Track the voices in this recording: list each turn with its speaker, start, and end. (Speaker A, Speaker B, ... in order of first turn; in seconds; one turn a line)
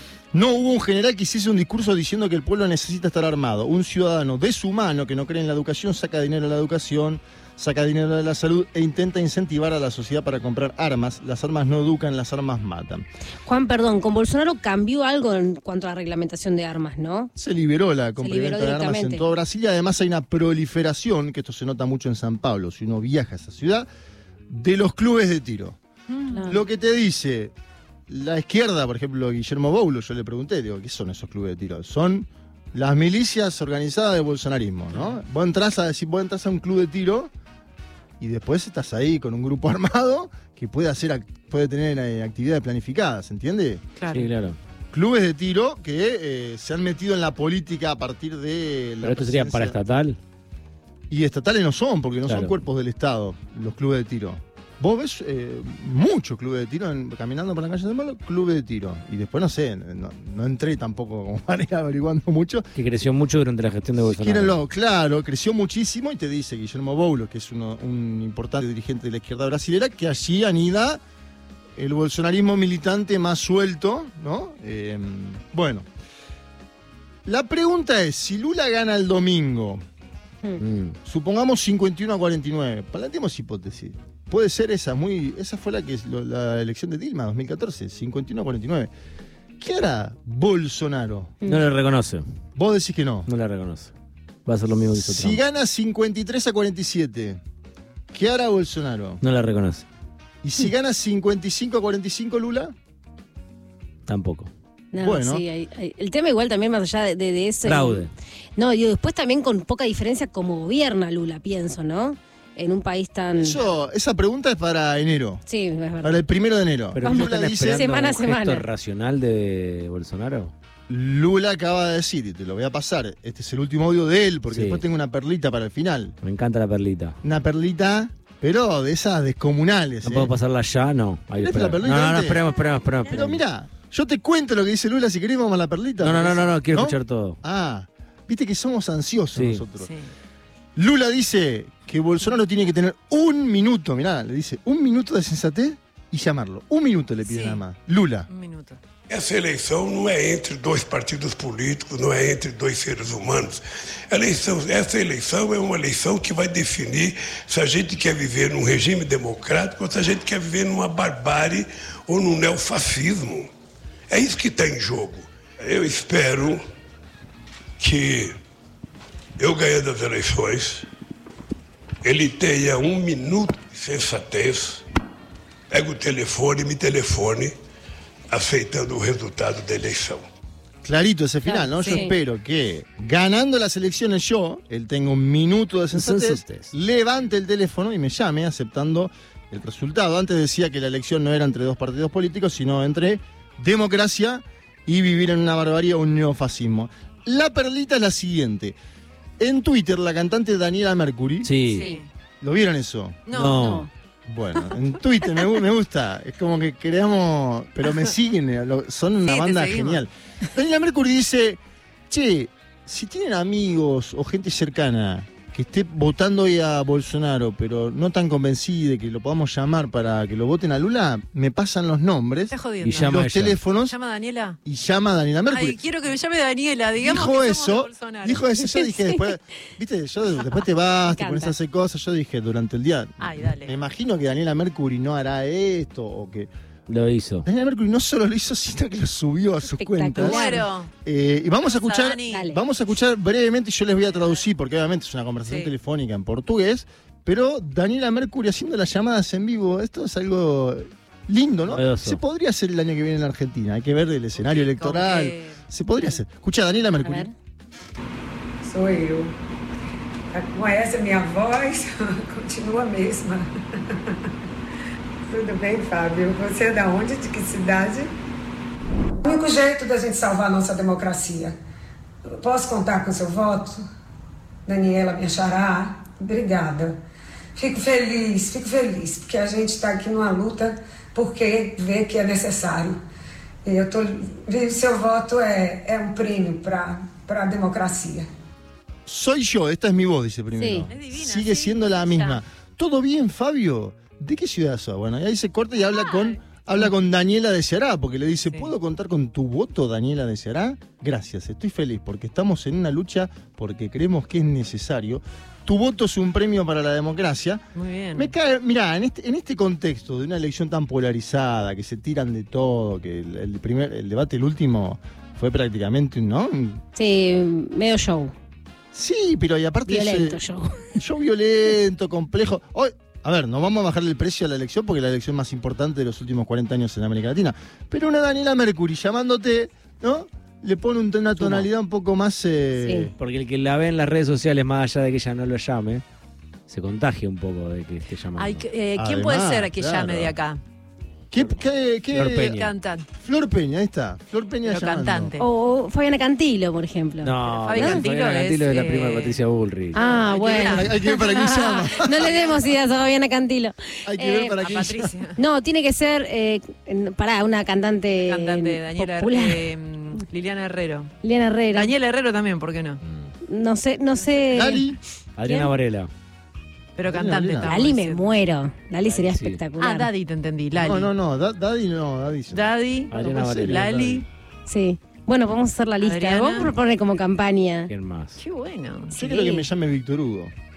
Speaker A: 0.3-13.1
Speaker B: 13.4-17.3
Speaker A: 17.4-23.9
Speaker B: 18.2-19.2
Speaker A: 24.5-25.8
Speaker C: 26.1-26.4
Speaker B: 26.3-26.6
Speaker A: 26.5-27.5
Speaker A: 28.1-37.3
Speaker C: 34.9-35.2
Speaker A: 38.2-43.8
Speaker C: 44.0-44.3
Speaker D: 44.1-44.6
Speaker A: 44.9-49.8
Speaker D: 49.0-50.2
Speaker A: 51.1-62.7
Speaker D: 52.2-52.5
Speaker D: 62.7-64.6
Speaker A: 64.0-71.0
Speaker A: 71.8-75.8
Speaker A: 77.2-79.8
Speaker D: 80.6-80.9
Speaker A: 81.0-88.9
Speaker A: 89.6-91.3
Speaker D: 91.4-92.2
Speaker A: 92.6-93.3
Speaker D: 93.3-93.9
Speaker D: 94.5-95.4
Speaker A: 94.9-97.4
Speaker A: 98.1-99.2
Speaker D: 99.2-99.8
Speaker A: 100.4-102.7
Speaker D: 104.1-104.5
Speaker B: 104.9-113.6
Speaker A: 104.9-105.4
Speaker D: 107.6-108.1
Speaker A: 113.4-115.4
Speaker B: 115.5-116.2
Speaker A: 116.0-117.9
Speaker D: 116.9-120.5
Speaker B: 117.0-118.7
Speaker A: 120.9-126.2
Speaker D: 124.5-124.8
Speaker D: 126.2-127.2
Speaker A: 127.2-130.3
Speaker D: 130.0-133.4
Speaker A: 131.4-132.4
Speaker A: 133.1-139.9
Speaker D: 136.0-137.4
Speaker D: 139.3-139.7
Speaker C: 139.8-140.1
Speaker A: 140.8-148.3
Speaker C: 147.2-147.6
Speaker C: 148.3-148.8
Speaker E: 149.1-163.5
Speaker E: 164.1-166.6
Speaker E: 167.8-168.3
Speaker E: 169.4-170.8
Speaker E: 172.0-174.8
Speaker E: 175.7-177.5
Speaker E: 178.3-180.2
Speaker A: 180.8-198.8
Speaker C: 181.4-182.1
Speaker B: 181.9-182.1
Speaker D: 185.9-186.7
Speaker A: 199.4-201.5
Speaker D: 201.4-201.9
Speaker C: 201.7-202.1
Speaker A: 202.4-203.2
Speaker C: 203.3-203.9
Speaker D: 203.3-203.9
Speaker A: 204.3-223.9
Speaker C: 209.2-210.0
Speaker C: 222.5-224.6
Speaker D: 222.8-223.6
Speaker A: 224.6-225.8
Speaker C: 225.5-228.5
Speaker A: 227.0-236.5
Speaker B: 228.6-229.2
Speaker B: 231.0-231.5
Speaker C: 233.2-233.7
Speaker D: 236.9-237.4
Speaker A: 237.4-257.3
Speaker B: 239.6-240.7
Speaker C: 240.2-240.9
Speaker C: 241.6-242.4
Speaker B: 242.3-242.6
Speaker C: 245.4-245.7
Speaker D: 251.7-252.2
Speaker C: 254.4-255.6
Speaker B: 257.0-257.3
Speaker F: 258.6-259.3
Speaker F: 260.3-263.5
Speaker F: 265.3-268.1
Speaker F: 269.2-271.5
Speaker F: 272.3-273.8
Speaker F: 274.6-276.9
Speaker F: 277.6-283.0
Speaker F: 283.6-288.3
Speaker A: 289.1-307.6
Speaker B: 290.5-290.9
Speaker C: 290.9-292.4
Speaker C: 296.0-296.9
Speaker C: 307.7-308.3
Speaker A: 308.1-316.8
Speaker B: 316.9-318.3
Speaker A: 318.9-320.4
Speaker B: 319.9-320.9
Speaker A: 320.9-333.1
Speaker D: 331.4-331.7
Speaker B: 332.8-333.1
Speaker D: 333.1-336.0
Speaker D: 336.7-338.6
Speaker C: 338.4-340.6
Speaker A: 338.9-340.4
Speaker A: 341.3-342.5
Speaker D: 342.1-342.7
Speaker C: 342.3-343.0
Speaker A: 343.2-345.4
Speaker C: 344.6-345.5
Speaker B: 345.4-348.1
Speaker D: 347.2-350.0
Speaker C: 347.4-349.4
Speaker B: 349.9-354.6
Speaker C: 349.9-350.9
Speaker A: 350.4-352.6
Speaker C: 352.0-352.6
Speaker A: 354.0-355.1
Speaker C: 354.6-355.4
Speaker B: 355.4-359.6
Speaker C: 358.2-361.1
Speaker B: 361.2-361.9
Speaker C: 361.7-363.0
Speaker B: 363.4-364.8
Speaker A: 364.5-365.0
Speaker D: 365.4-366.1
Speaker B: 365.4-365.7
Speaker C: 367.0-368.3
Speaker A: 367.1-367.8
Speaker B: 367.6-370.1
Speaker D: 369.0-369.6
Speaker C: 369.8-371.1
Speaker A: 370.8-373.3
Speaker C: 372.5-374.2
Speaker D: 373.1-374.2
Speaker B: 374.7-377.9
Speaker C: 376.0-376.7
Speaker D: 377.9-378.4
Speaker C: 378.4-379.2
Speaker A: 379.1-380.5
Speaker B: 379.2-379.7